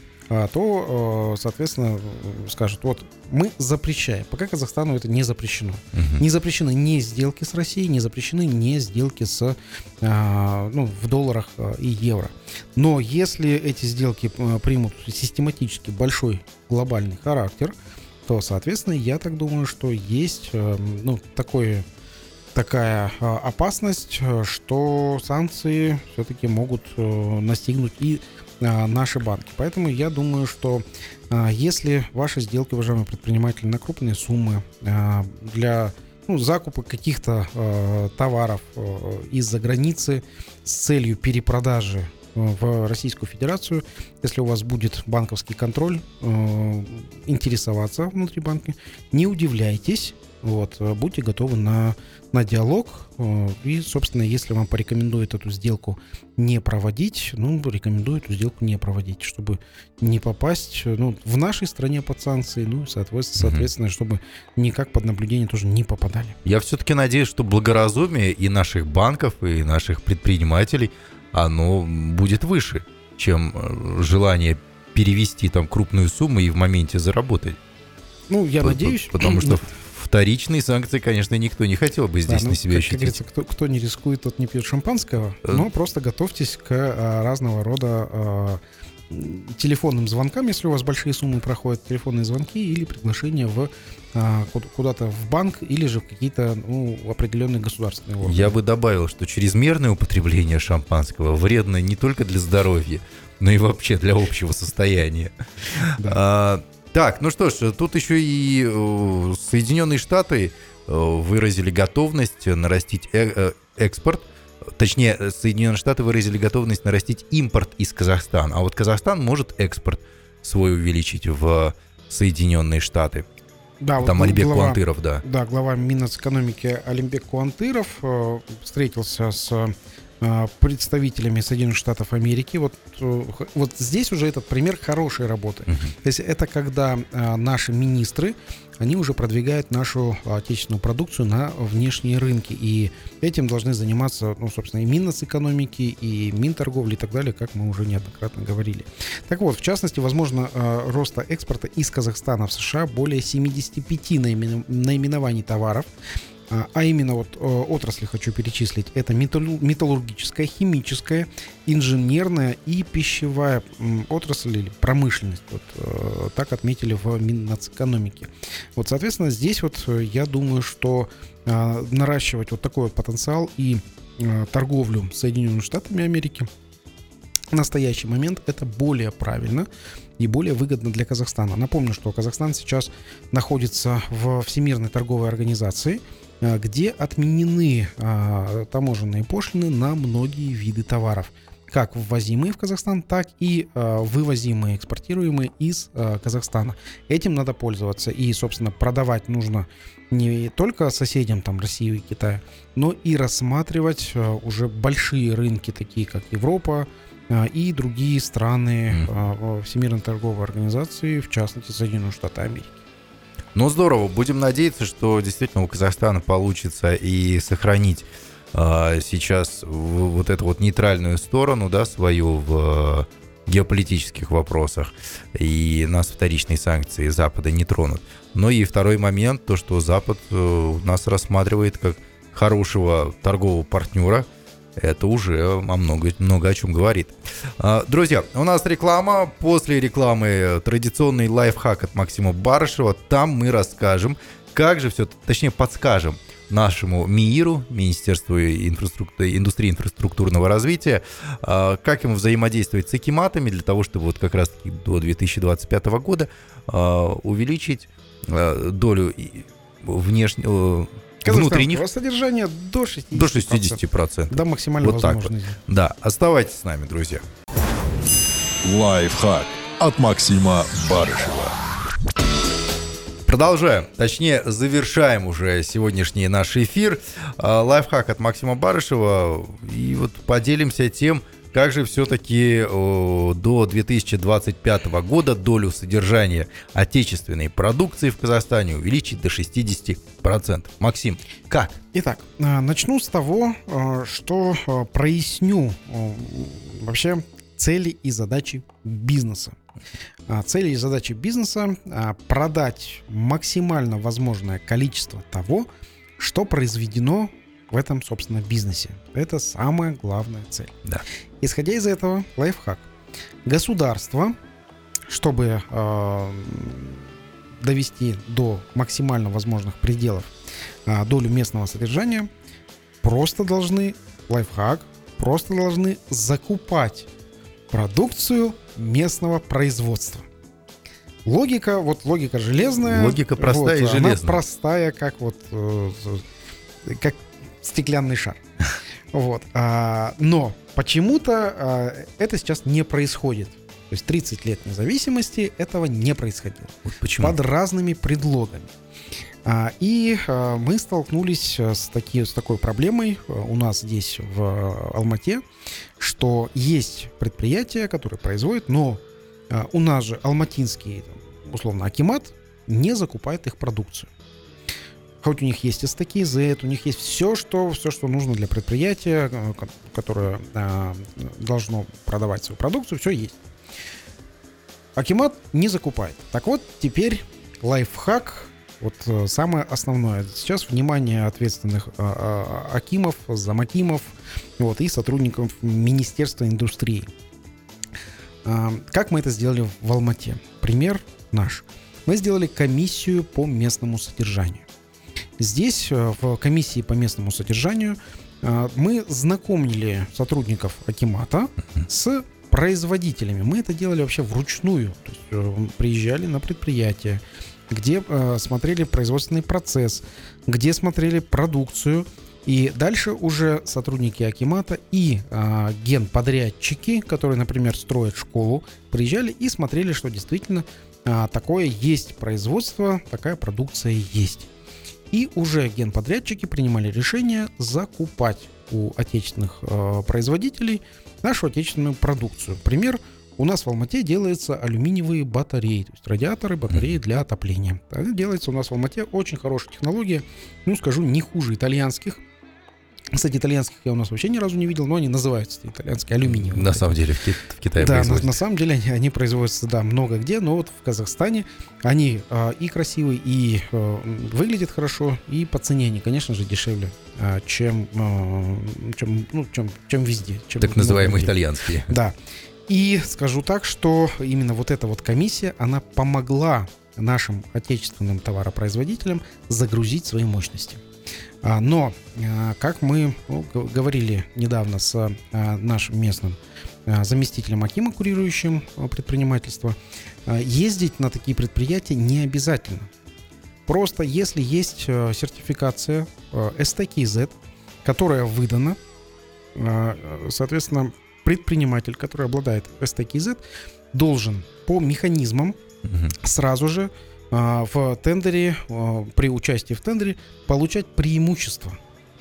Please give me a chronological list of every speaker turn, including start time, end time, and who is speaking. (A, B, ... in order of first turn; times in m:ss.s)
0:00.3-0:17.7 A
0:05.9-0:06.2 B
0:18.3-0:21.8 A
0:22.6-1:06.4 A
1:03.4-1:03.7 B
1:06.4-1:17.6 B
1:18.3-1:19.7 A
1:18.6-1:23.2 B
1:22.3-1:38.6 A
1:38.2-2:03.3 B
2:03.8-2:35.9 A
2:04.0-2:05.2 B
2:36.5-2:56.5 A
2:57.5-2:59.7 A
3:00.2-3:32.8 A
3:33.6-4:21.8 B
4:21.2-4:25.6 A
4:23.1-4:27.2 B
4:28.6-4:31.6 C
4:33.3-4:51.8 B
4:51.9-4:59.6 A
5:00.3-5:10.8 A
5:11.4-5:12.9 A
5:13.4-5:14.4 A
5:15.1-5:17.1 A
5:17.6-5:20.3 A
5:20.9-5:22.3 A
5:23.0-5:27.1 A
5:27.7-5:30.2 A
5:31.2-5:36.2 A
5:32.8-5:34.4 B
5:36.8-5:38.4 A
5:39.1-5:48.7 A
5:46.8-5:47.4 B
5:49.4-5:55.4 A
5:56.0-6:04.1 A
6:05.2-6:13.4 A
6:15.0-6:27.1 A
6:28.4-6:34.6 A
6:35.4-7:04.5 A
7:05.1-7:22.2 A
7:23.1-7:27.0 A
7:26.2-7:28.3 B
7:27.8-7:41.4 A
7:40.6-7:41.9 B
7:41.9-7:42.2 A
7:42.7-7:50.8 A
7:51.4-8:02.9 A
8:03.7-8:08.8 A
8:09.6-8:13.4 A
8:13.9-8:15.6 A
8:15.9-8:16.1 B
8:16.2-8:21.8 A